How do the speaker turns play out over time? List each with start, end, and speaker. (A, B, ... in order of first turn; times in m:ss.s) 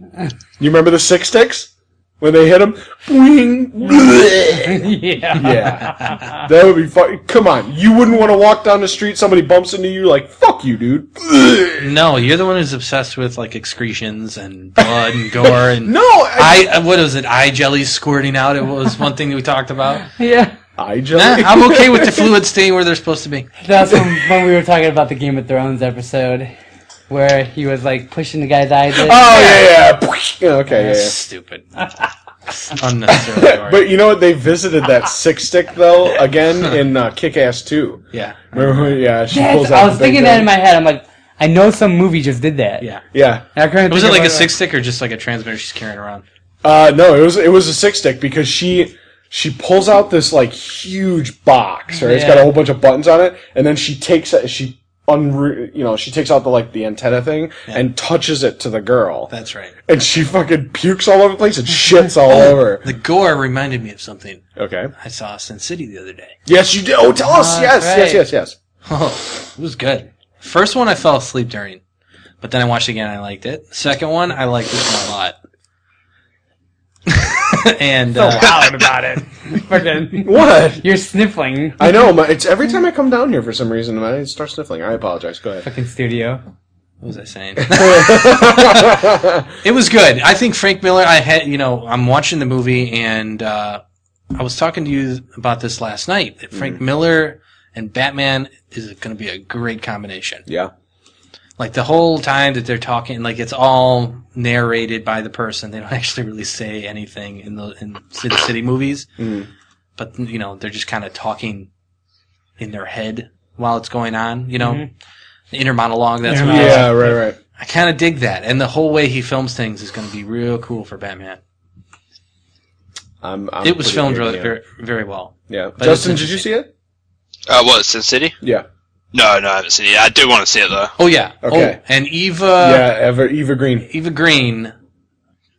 0:00.6-0:11.9 A
0:04.6-0:06.4 B
0:05.5-0:06.2 C
0:11.8-0:20.0 C
0:15.4-0:16.7 A
0:20.2-0:20.5 B
0:20.8-0:22.3 A
0:21.1-0:23.5 C
0:23.6-0:26.5 B
0:23.8-0:24.3 A
0:27.1-0:29.3 B
0:28.9-0:31.1 A
0:29.3-0:29.6 C
0:30.7-0:31.6 C
0:32.6-0:33.9 C
0:33.1-0:40.5 A
0:38.1-0:38.8 C
0:39.3-0:42.9 B
0:43.1-0:43.4 A
0:43.5-0:44.5 B
0:43.9-0:46.2 C
0:46.6-0:59.3 A
0:51.9-0:52.5 B
0:59.3-0:59.7 C
0:59.9-1:02.8 A
1:02.3-1:04.4 C
1:04.6-1:04.9 A
1:05.0-1:06.4 C
1:06.5-1:08.6 A
1:07.2-1:08.2 B
1:08.8-1:11.8 C
1:12.4-1:15.4 C
1:17.1-1:18.6 C
1:18.1-1:21.9 B
1:20.2-1:20.8 A
1:21.8-1:25.6 A
1:25.6-1:26.4 B
1:27.0-1:29.1 C
1:27.6-1:29.5 A
1:29.6-1:33.8 C
1:34.3-1:40.4 C
1:36.5-1:36.8 A
1:41.6-1:49.1 C
1:49.2-1:49.5 A
1:50.0-1:51.7 C
1:52.6-1:54.8 C
1:54.6-1:54.9 B
1:55.5-2:01.4 C
1:56.2-1:57.1 B
1:56.4-1:57.4 A
2:03.2-2:04.6 A
2:03.6-2:06.5 C
2:05.5-2:06.7 A
2:07.5-2:08.4 D
2:08.4-2:08.6 A
2:09.1-2:10.9 D
2:11.0-2:12.9 C
2:11.4-2:11.8 A
2:12.6-2:13.9 A
2:13.9-2:14.7 C